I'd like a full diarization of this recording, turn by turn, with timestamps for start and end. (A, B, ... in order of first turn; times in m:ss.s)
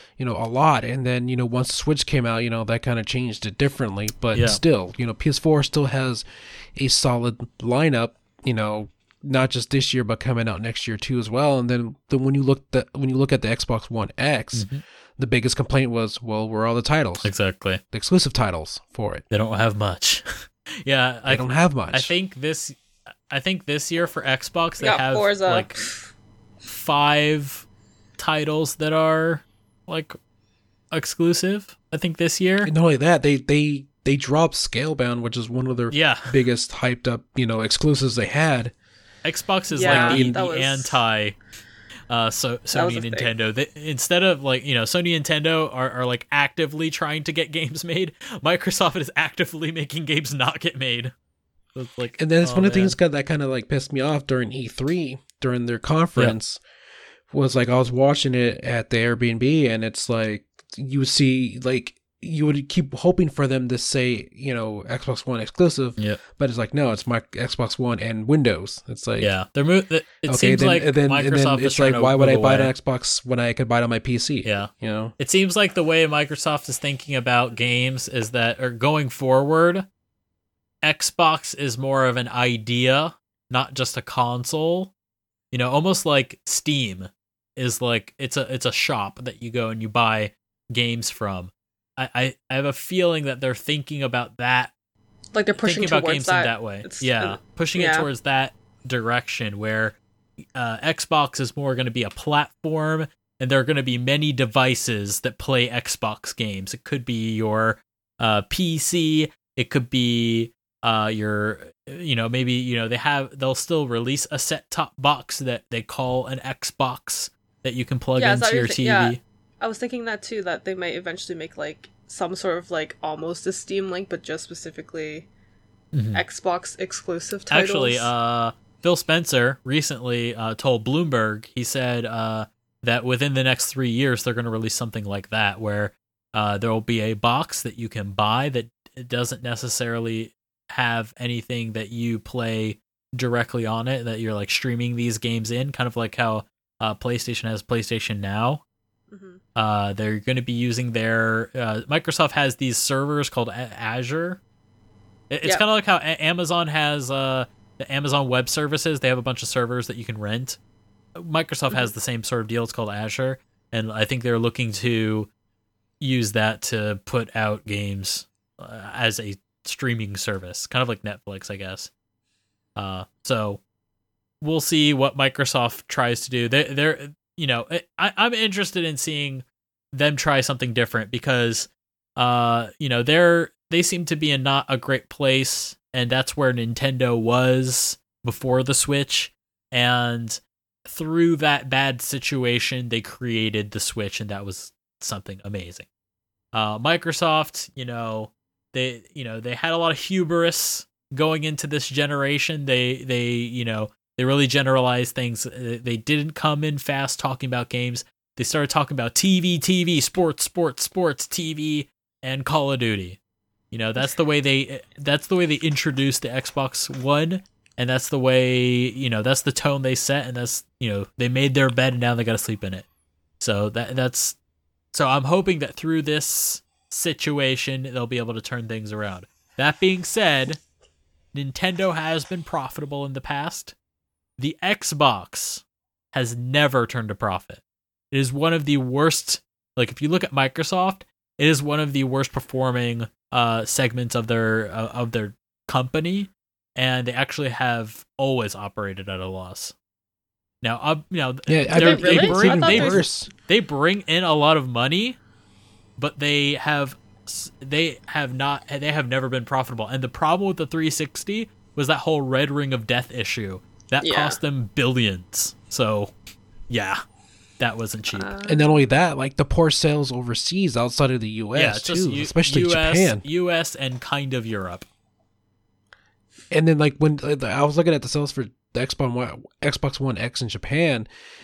0:00.2-0:06.2 A
0:04.3-0:04.6 B
0:06.8-0:17.3 A
0:14.5-0:14.8 B
0:17.2-0:17.8 B
0:17.9-0:19.2 A
0:19.3-0:25.8 B
0:21.3-0:22.1 A
0:24.8-0:26.1 C
0:26.7-0:27.7 B
0:28.2-0:30.2 B
0:30.9-0:32.7 B
0:32.6-0:38.7 A
0:35.9-0:36.4 B
0:39.2-0:41.4 B
0:39.7-0:41.0 C
0:39.8-0:40.4 A
0:42.1-0:51.1 B
0:42.7-0:43.3 C
0:51.8-0:53.0 B
0:52.2-0:56.6 A
0:57.3-1:09.3 A
1:09.2-1:12.7 B
1:10.2-1:15.1 A
1:14.4-1:19.9 B
1:20.8-1:24.9 B
1:25.5-1:34.7 B
1:35.3-1:38.1 C
1:35.6-1:40.0 B
1:40.6-1:59.2 B
1:58.2-2:05.3 C
2:05.9-2:06.2 B
2:06.1-2:08.1 C
2:07.5-2:28.6 B
2:29.1-2:29.4 C
2:29.6-2:34.4 B
2:35.3-2:40.6 B
2:41.2-2:45.3 B
2:46.0-2:51.9 B
2:52.8-2:53.6 B
2:54.4-3:15.9 B
3:16.5-3:33.2 B
3:33.7-3:42.9 B
3:43.4-3:44.4 B
3:44.9-3:50.6 B
3:51.3-3:53.8 B
3:54.4-4:09.8 B
4:10.6-4:15.2 B
4:11.5-4:13.3 A
4:11.7-4:13.0 C
4:16.0-4:26.1 B
4:24.0-4:24.4 C
4:26.7-4:27.0 B
4:27.6-4:28.3 B
4:28.2-4:28.8 C
4:28.4-4:33.2 A
4:31.6-4:34.9 B
4:36.5-4:41.1 A